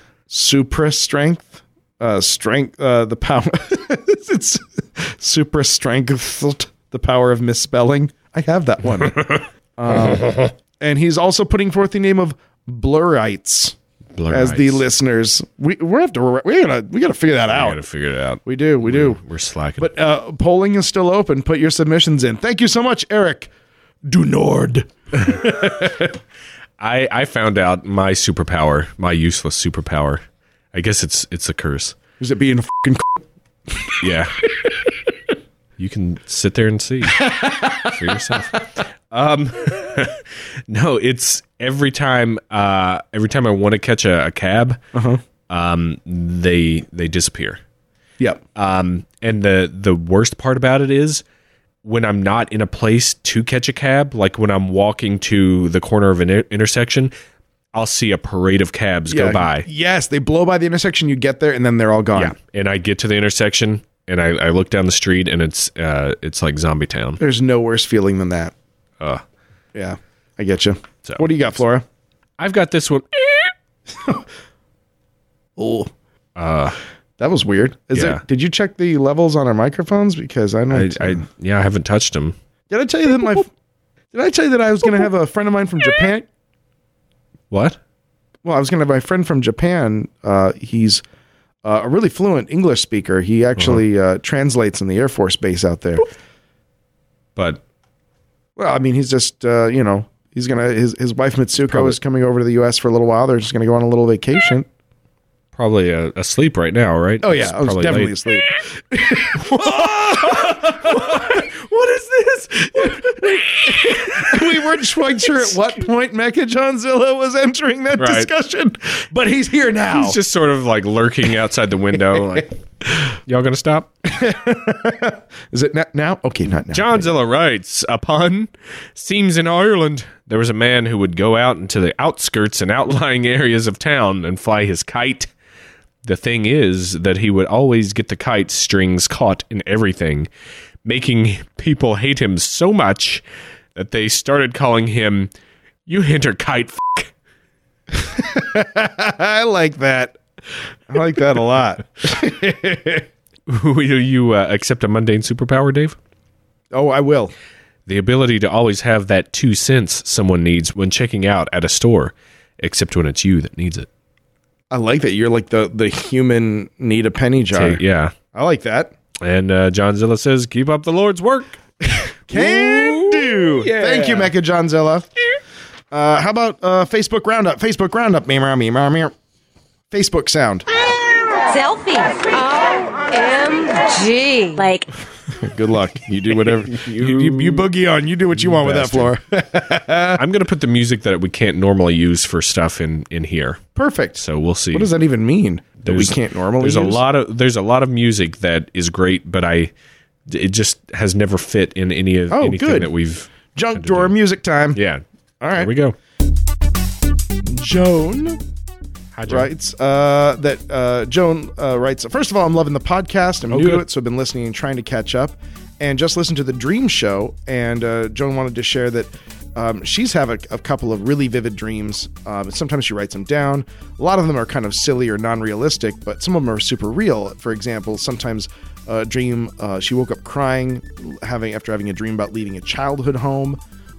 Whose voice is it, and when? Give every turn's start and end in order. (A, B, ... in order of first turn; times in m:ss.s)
0:00.3-0:13.8 A
0:14.2-0:14.8 B
0:14.3-0:17.8 A
0:17.5-0:19.9 B
0:18.4-0:19.2 A
0:19.8-0:23.5 A
0:24.1-0:26.0 A
0:25.3-0:26.1 B
0:26.8-0:32.0 B
0:32.2-0:34.0 A
0:34.0-0:34.3 B
0:35.8-0:44.8 B
0:37.2-0:38.4 A
0:44.9-0:45.2 A
0:45.5-0:47.6 B
0:48.6-0:51.2 B
0:51.8-0:57.1 B
0:57.7-0:59.7 B
0:59.1-1:02.4 A
1:02.1-1:07.2 B
1:07.2-1:08.5 A
1:09.8-1:11.8 A
1:12.4-1:13.5 B
1:14.0-1:14.2 A
1:15.6-1:15.9 A
1:16.4-1:16.8 B
1:17.2-1:21.3 A
1:17.9-1:18.2 B
1:20.7-1:22.4 B
1:22.7-1:23.5 A
1:24.1-1:26.3 A
1:27.5-1:27.8 B
1:28.4-1:31.0 A
1:31.6-1:36.1 A
1:37.4-1:37.6 B
1:38.6-1:44.7 A
1:41.7-1:42.0 B
1:45.5-1:48.4 B
1:47.2-1:51.4 A
1:49.3-1:55.6 B
1:52.7-2:00.2 A
1:58.0-1:58.3 B
1:59.9-2:02.6 B
2:03.1-2:03.9 B
2:04.1-2:07.1 A
2:06.7-2:15.3 B
2:16.0-2:20.3 B
2:20.8-2:23.2 B
2:23.8-2:25.3 B
2:25.9-2:27.1 B
2:27.9-2:30.2 A
2:30.9-2:33.1 A
2:33.5-2:36.0 B
2:36.7-2:37.3 A
2:37.9-2:43.9 B
2:44.7-2:48.9 A
2:47.5-2:48.2 B
2:49.2-2:51.6 B
2:51.9-2:55.1 A
2:52.3-2:54.3 B
2:55.9-2:59.1 A
2:59.9-3:00.7 A
3:01.4-3:04.9 C
3:05.4-3:10.2 A
3:06.3-3:07.7 B
3:08.3-3:09.2 B
3:10.2-3:13.6 B
3:13.8-3:17.0 A
3:14.2-3:14.9 B
3:15.8-3:19.7 B
3:20.3-3:24.2 B
3:22.3-3:22.9 A
3:23.5-3:24.8 A
3:24.7-3:25.0 B
3:25.4-3:25.7 A
3:25.6-3:26.0 B
3:27.4-3:28.4 A
3:29.1-3:29.5 B
3:29.3-3:53.6 A
3:33.5-3:33.9 B